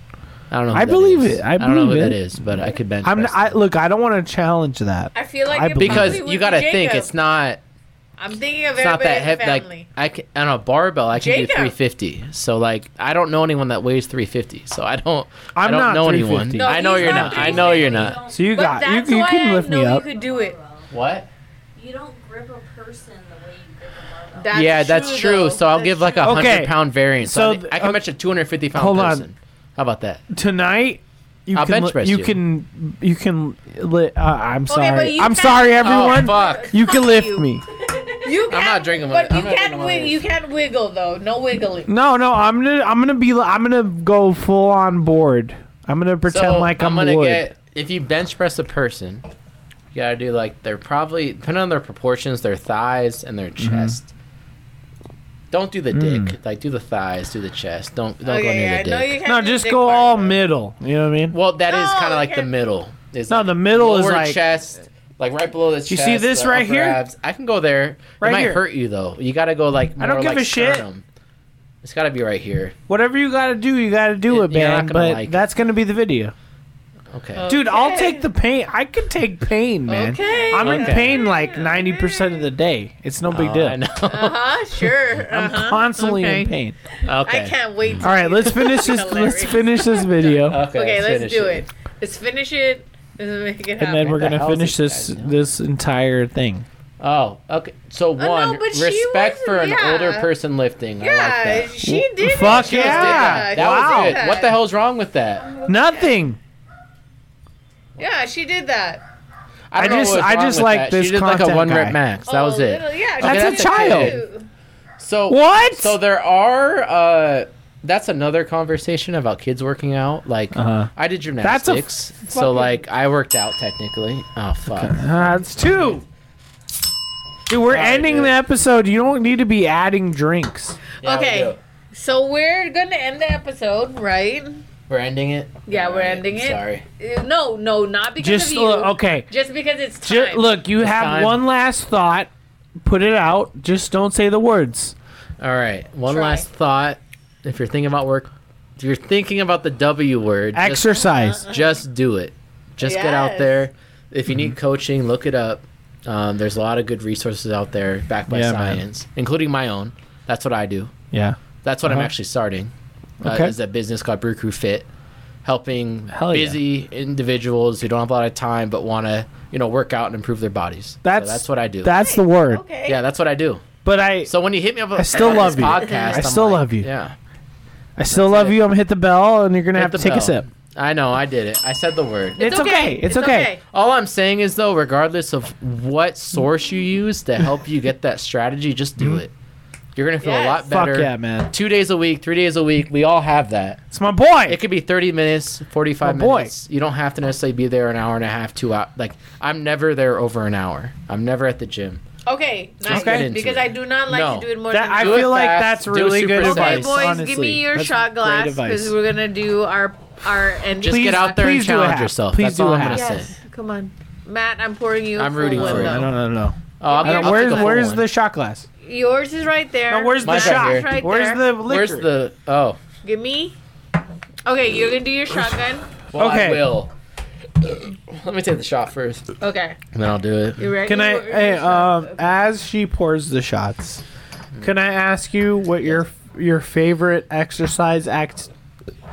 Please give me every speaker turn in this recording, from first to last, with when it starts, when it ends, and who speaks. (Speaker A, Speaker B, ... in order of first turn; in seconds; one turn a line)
Speaker A: 0.5-3.6
Speaker B: 0.7-2.2
Speaker B: 3.0-6.2
Speaker C: 5.2-7.1
Speaker A: 5.8-7.6
Speaker C: 8.2-9.9
Speaker A: 8.8-18.2
Speaker C: 11.2-11.7
Speaker B: 15.6-17.7
Speaker C: 16.6-20.6
Speaker D: 17.0-18.7
Speaker B: 18.3-20.1
Speaker D: 19.9-20.9
Speaker A: 20.9-21.3
Speaker D: 21.8-24.7
Speaker C: 24.4-26.4
Speaker A: 24.5-30.2
Speaker B: 26.2-28.0
Speaker B: 28.7-29.2
Speaker B: 30.3-37.6
Speaker A: 31.5-32.4
Speaker C: 34.7-37.5
Speaker A: 35.8-36.7
Speaker C: 38.1-41.9
Speaker A: 38.5-40.2
Speaker B: 41.9-47.5
Speaker A: 46.3-49.2
Speaker A: 49.9-54.1
Speaker B: 53.6-54.0
Speaker A: 55.5-59.2
Speaker B: 55.9-56.3
Speaker C: 58.2-60.4
Speaker B: 59.2-61.4
Speaker A: 61.3-71.0
Speaker C: 61.7-62.5
Speaker B: 63.3-64.4
Speaker B: 65.9-67.0
Speaker B: 68.2-68.6
Speaker B: 70.0-70.9
Speaker A: 71.8-72.8
Speaker B: 72.9-76.3
Speaker A: 74.3-75.4
Speaker A: 77.1-77.5
Speaker C: 77.3-78.3
Speaker B: 77.5-83.8
Speaker C: 79.9-82.4
Speaker A: 80.6-81.2
Speaker A: 83.3-84.5
Speaker C: 84.1-86.5
Speaker B: 85.3-86.8
Speaker A: 87.0-88.0
Speaker C: 87.1-94.2
Speaker B: 88.0-90.6
Speaker A: 90.4-91.7
Speaker B: 93.8-96.7
Speaker A: 94.1-95.4
Speaker A: 97.0-101.8
Speaker C: 98.2-100.3
Speaker C: 101.0-104.5
Speaker B: 101.8-104.2
Speaker A: 102.4-105.6
Speaker B: 105.6-106.4
Speaker C: 108.0-109.0
Speaker A: 109.7-114.2
Speaker B: 109.8-112.0
Speaker C: 112.3-114.5
Speaker B: 113.2-114.2
Speaker A: 115.0-126.0
Speaker B: 115.3-116.0
Speaker B: 120.5-122.8
Speaker B: 124.7-126.0
Speaker B: 127.5-130.8
Speaker A: 127.7-128.4
Speaker C: 131.0-134.6
Speaker A: 131.0-131.6
Speaker A: 134.9-136.8
Speaker C: 135.7-140.5
Speaker B: 138.2-139.3
Speaker B: 140.0-142.3
Speaker A: 140.8-141.4
Speaker B: 142.8-144.9
Speaker A: 145.4-160.9
Speaker C: 146.1-146.5
Speaker B: 150.6-151.5
Speaker C: 151.1-151.8
Speaker C: 152.8-153.6
Speaker B: 158.3-158.8
Speaker B: 161.1-162.1
Speaker A: 161.6-162.7
Speaker B: 163.2-163.5
Speaker A: 163.2-164.9
Speaker A: 165.4-172.1
Speaker B: 166.1-166.6
Speaker B: 171.0-172.6
Speaker C: 171.9-173.0
Speaker A: 172.9-173.7
Speaker B: 173.8-174.3
Speaker A: 174.2-177.2
Speaker B: 174.9-176.9
Speaker C: 175.2-176.2
Speaker B: 178.0-180.4
Speaker A: 178.1-178.6
Speaker A: 179.8-182.5
Speaker B: 182.4-183.5
Speaker C: 182.4-183.6
Speaker A: 183.7-189.3
Speaker A: 190.0-193.8
Speaker C: 190.2-190.7
Speaker B: 190.7-191.5
Speaker B: 193.9-194.6
Speaker A: 194.5-202.0
Speaker B: 196.0-196.5
Speaker C: 202.3-205.5
Speaker A: 202.9-207.2
Speaker B: 202.9-203.3
Speaker B: 204.7-208.9
Speaker C: 206.4-211.4
Speaker A: 210.8-213.3
Speaker B: 210.9-213.0
Speaker C: 212.9-216.1
Speaker A: 215.2-216.1
Speaker B: 215.5-218.7
Speaker A: 216.8-218.1
Speaker C: 216.8-217.8
Speaker C: 218.8-221.4
Speaker B: 219.9-222.1
Speaker A: 220.2-221.0
Speaker A: 221.6-222.8
Speaker C: 223.0-223.6
Speaker C: 224.4-225.8
Speaker A: 226.1-226.9
Speaker B: 226.2-226.7
Speaker A: 227.6-229.2
Speaker C: 229.4-229.8
Speaker A: 229.9-230.7
Speaker C: 230.6-232.4
Speaker B: 230.8-234.0
Speaker B: 234.6-238.5